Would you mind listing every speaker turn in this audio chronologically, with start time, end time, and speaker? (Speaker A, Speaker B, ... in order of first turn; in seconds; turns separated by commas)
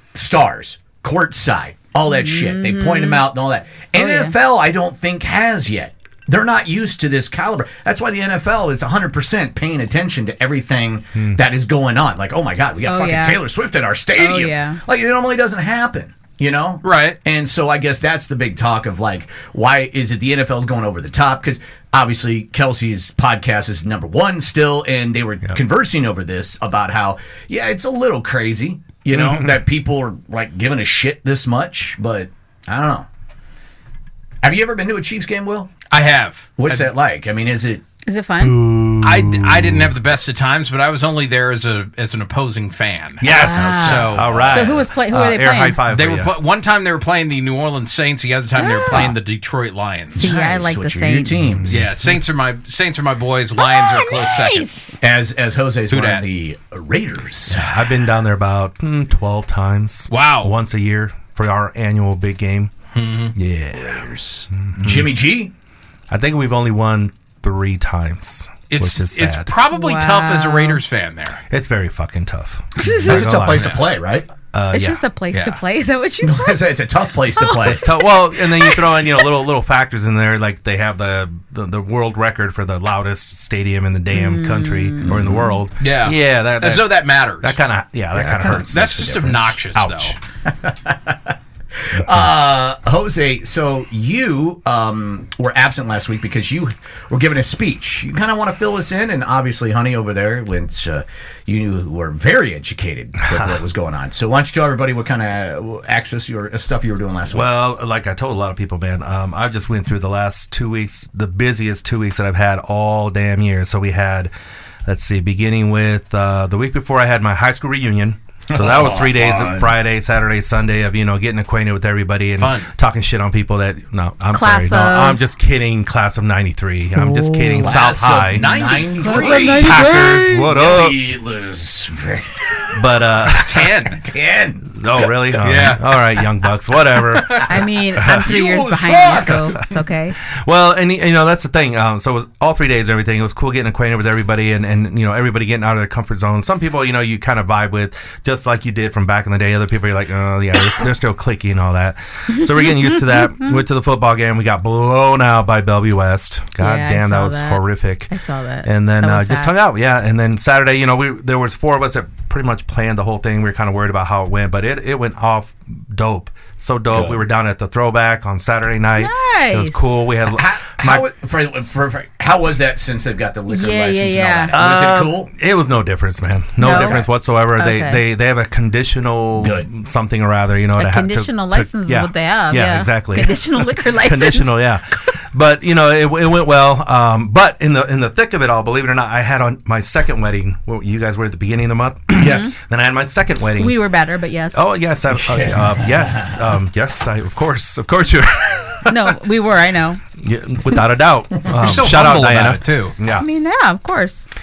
Speaker A: 0.1-33.1, Speaker B: 2.1-3.3, Speaker B: 3.9-4.3, Speaker B: 12.8-13.4, Speaker B: 14.2-14.8, Speaker C: 16.8-17.2, Speaker D: 29.1-29.5, Speaker A: 34.4-35.7, Speaker C: 35.9-36.9, Speaker A: 36.6-37.8, Speaker B: 38.0-38.6, Speaker D: 38.4-40.0, Speaker C: 39.0-44.5, Speaker D: 43.2-46.3, Speaker B: 43.3-45.8, Speaker A: 43.3-44.7, Speaker C: 45.9-50.3, Speaker B: 48.5-49.1, Speaker A: 50.1-51.9, Speaker B: 50.1-51.4, Speaker D: 51.5-52.2, Speaker C: 51.7-54.7, Speaker B: 53.6-54.9, Speaker A: 55.0-57.8, Speaker C: 55.9-56.2, Speaker D: 57.5-62.7, Speaker C: 60.1-60.5, Speaker C: 62.9-63.3, Speaker D: 63.3-65.1, Speaker A: 63.7-65.5, Speaker D: 66.1-69.5, Speaker C: 68.7-71.4, Speaker B: 69.7-70.8, Speaker D: 71.5-73.8, Speaker B: 72.8-73.2, Speaker A: 73.0-74.3, Speaker C: 73.4-73.8, Speaker D: 74.5-75.0, Speaker B: 74.7-76.8, Speaker C: 75.3-75.6, Speaker A: 76.2-77.9, Speaker B: 77.3-79.3, Speaker D: 77.6-86.9, Speaker B: 84.1-85.4, Speaker A: 85.0-85.5, Speaker C: 85.8-87.6, Speaker D: 87.4-90.2, Speaker A: 88.1-89.4, Speaker C: 88.5-90.2, Speaker A: 90.4-107.5, Speaker D: 91.9-92.3, Speaker D: 103.3-103.6, Speaker D: 107.3-114.3, Speaker D: 114.8-128.5, Speaker A: 118.5-119.7, Speaker C: 122.4-122.7, Speaker B: 124.3-125.2, Speaker B: 126.9-127.9, Speaker A: 127.5-135.3, Speaker C: 128.3-129.6, Speaker B: 129.0-130.5, Speaker D: 129.3-130.9, Speaker D: 132.7-133.7, Speaker C: 133.3-134.0, Speaker D: 134.7-138.3, Speaker C: 135.4-135.8, Speaker A: 137.2-139.7, Speaker B: 137.4-140.2, Speaker D: 140.3-158.1, Speaker B: 152.3-153.5, Speaker B: 156.6-159.5, Speaker D: 158.6-171.1, Speaker A: 166.9-167.2, Speaker B: 169.0-170.0, Speaker A: 170.2-175.3, Speaker B: 173.5-174.6, Speaker D: 174.5-193.8, Speaker B: 176.6-178.0, Speaker A: 176.6-177.1, Speaker A: 179.4-179.7, Speaker B: 180.8-184.6, Speaker B: 192.2-192.6, Speaker B: 193.6-194.6, Speaker D: 194.5-199.1, Speaker A: 195.1-196.4, Speaker B: 198.9-200.0, Speaker D: 200.2-203.2, Speaker C: 201.5-202.9, Speaker B: 203.1-204.3